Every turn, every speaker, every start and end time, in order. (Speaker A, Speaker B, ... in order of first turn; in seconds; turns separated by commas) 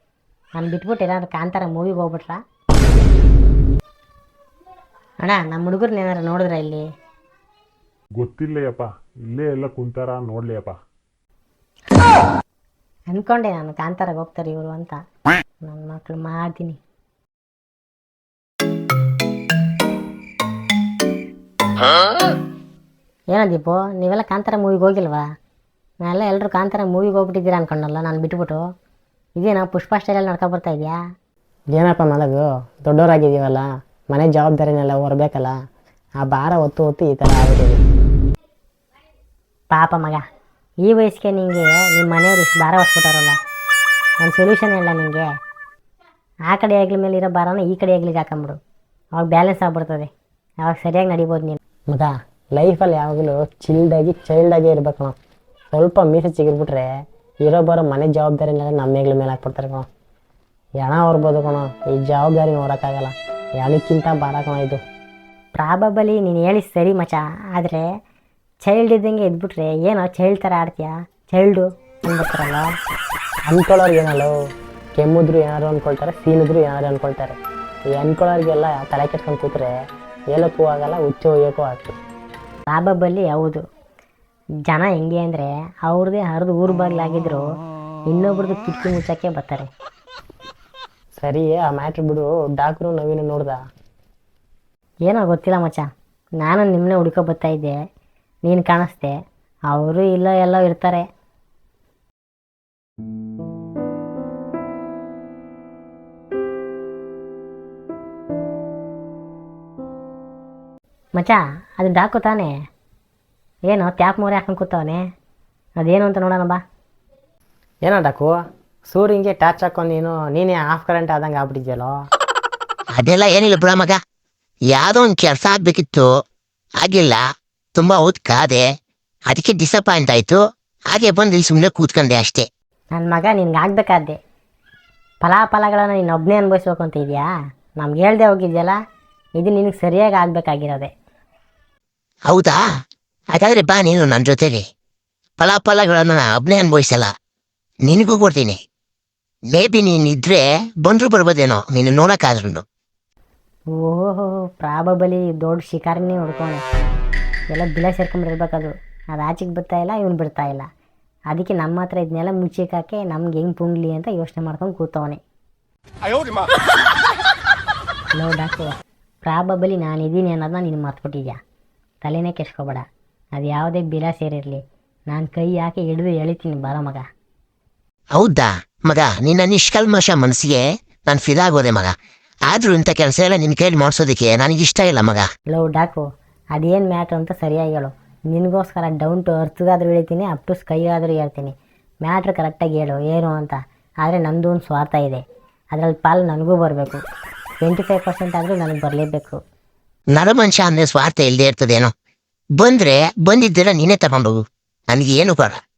Speaker A: 0.6-2.4, Speaker A: 5.2-6.8, Speaker B: 8.2-10.8, Speaker A: 13.1-15.0, Speaker A: 15.6-16.8, Speaker A: 23.3-25.2, Speaker A: 26.0-28.6, Speaker A: 29.4-31.0, Speaker C: 31.7-35.5, Speaker C: 36.2-37.8, Speaker A: 39.7-40.2, Speaker A: 40.8-43.4, Speaker A: 44.2-45.3, Speaker A: 46.5-48.6, Speaker A: 49.1-50.1, Speaker A: 50.6-51.6, Speaker C: 51.9-55.1, Speaker C: 55.7-56.9, Speaker C: 57.5-59.9, Speaker C: 60.8-64.8, Speaker A: 65.5-67.9, Speaker A: 68.7-72.7, Speaker C: 73.5-74.3, Speaker C: 75.0-77.4, Speaker C: 77.9-79.7, Speaker C: 80.3-81.9, Speaker A: 82.7-83.6, Speaker A: 84.7-87.4, Speaker A: 88.1-89.7, Speaker C: 91.2-93.6, Speaker A: 95.1-95.9, Speaker A: 96.4-97.8, Speaker A: 98.5-99.1, Speaker A: 99.7-101.0, Speaker A: 111.2-112.5, Speaker A: 113.7-115.0, Speaker A: 115.8-116.6, Speaker C: 117.8-118.3, Speaker C: 118.9-121.9, Speaker D: 123.0-124.0, Speaker D: 124.7-126.1, Speaker D: 126.8-127.2, Speaker D: 127.8-128.7, Speaker D: 129.3-130.4, Speaker D: 130.9-132.5, Speaker A: 132.9-134.2, Speaker A: 135.2-137.3, Speaker A: 137.8-138.8, Speaker A: 139.4-140.9, Speaker D: 142.3-142.6, Speaker D: 143.3-144.6, Speaker D: 145.4-147.1, Speaker D: 147.9-148.6, Speaker D: 149.5-152.6, Speaker A: 153.8-156.6, Speaker A: 157.5-160.7, Speaker A: 161.3-165.2, Speaker A: 168.1-171.4, Speaker A: 172.0-172.8, Speaker A: 173.3-177.0, Speaker D: 178.2-181.9, Speaker D: 182.5-185.2, Speaker A: 185.5-197.0, Speaker A: 197.6-199.4, Speaker D: 200.1-201.9, Speaker D: 202.6-205.6